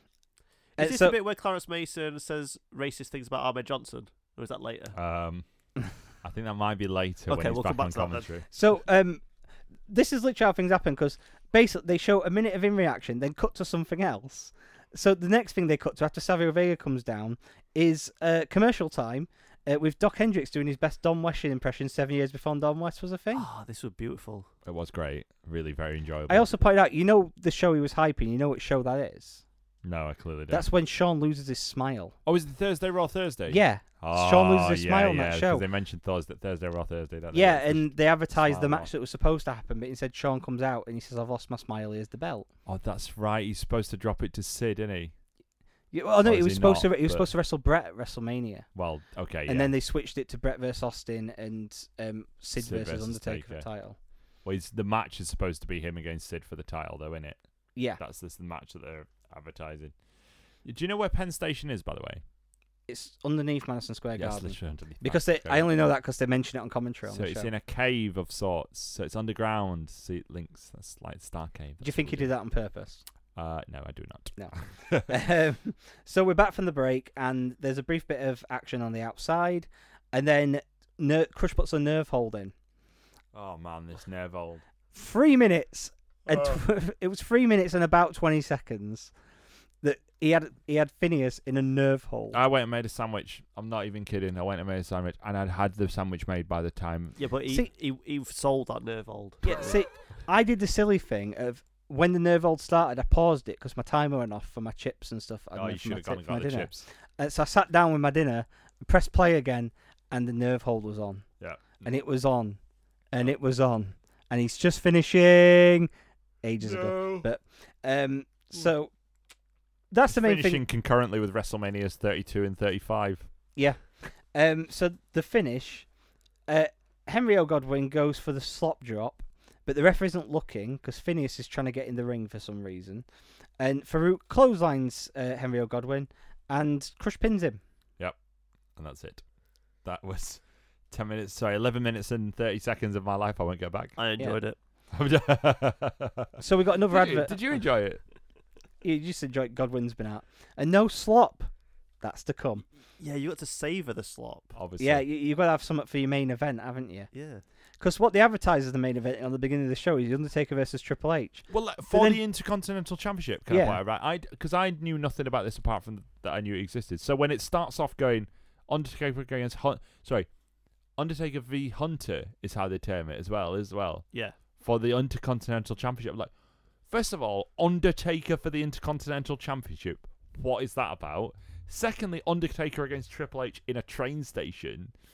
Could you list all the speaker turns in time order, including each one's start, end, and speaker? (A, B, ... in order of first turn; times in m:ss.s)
0:00.8-0:01.2 A
0:00.8-0:05.0 B
0:04.9-0:05.5 C
0:06.1-0:08.4 C
0:07.3-0:08.5 B
0:08.5-0:09.2 A
0:09.9-0:23.5 A
0:23.3-0:24.5 B
0:24.6-0:26.5 C
0:26.3-0:29.4 A
0:29.8-0:30.7 C
0:30.5-0:32.2 A
0:32.3-0:38.9 C
0:33.5-0:35.6 A
0:37.3-0:42.5 A
0:42.7-0:45.1 C
0:45.9-0:48.7 A
0:46.2-0:47.3 C
0:48.8-0:49.7 C
0:49.5-0:54.0 A
0:52.6-0:53.7 C
0:54.4-1:00.0 C
0:57.8-0:58.0 A
1:00.6-1:02.2 C
1:02.9-1:07.5 A
1:04.2-1:05.8 C
1:07.1-1:12.3 C
1:11.8-1:13.0 A
1:13.4-1:15.1 C
1:14.4-1:22.5 A
1:23.3-1:24.6 C
1:24.9-1:29.1 A
1:26.3-1:26.6 C
1:29.8-1:32.4 A
1:32.3-1:37.2 C
1:37.2-1:39.8 B
1:39.4-1:51.3 A
1:45.5-1:46.8 C
1:51.4-1:51.9 C
1:51.8-1:52.6 A
1:53.1-1:55.9 A
1:56.4-1:58.9 A
1:56.6-1:57.3 C
1:59.9-2:00.6 A
2:00.1-2:03.3 C
2:03.6-2:05.9 A
2:06.5-2:13.0 A
2:13.6-2:17.6 A
2:18.8-2:19.3 C
2:19.8-2:24.0 C
2:24.0-2:24.6 B
2:24.9-2:26.4 C
2:26.4-2:27.4 A
2:26.9-2:28.0 C
2:28.8-2:32.6 A
2:33.0-2:34.6 B
2:34.6-2:35.0 C
2:34.8-2:37.1 A
2:37.1-2:37.4 B
2:37.8-2:42.2 A
2:41.5-2:50.3 C
2:43.5-2:43.8 A
2:51.0-2:56.3 C
2:56.9-3:04.9 C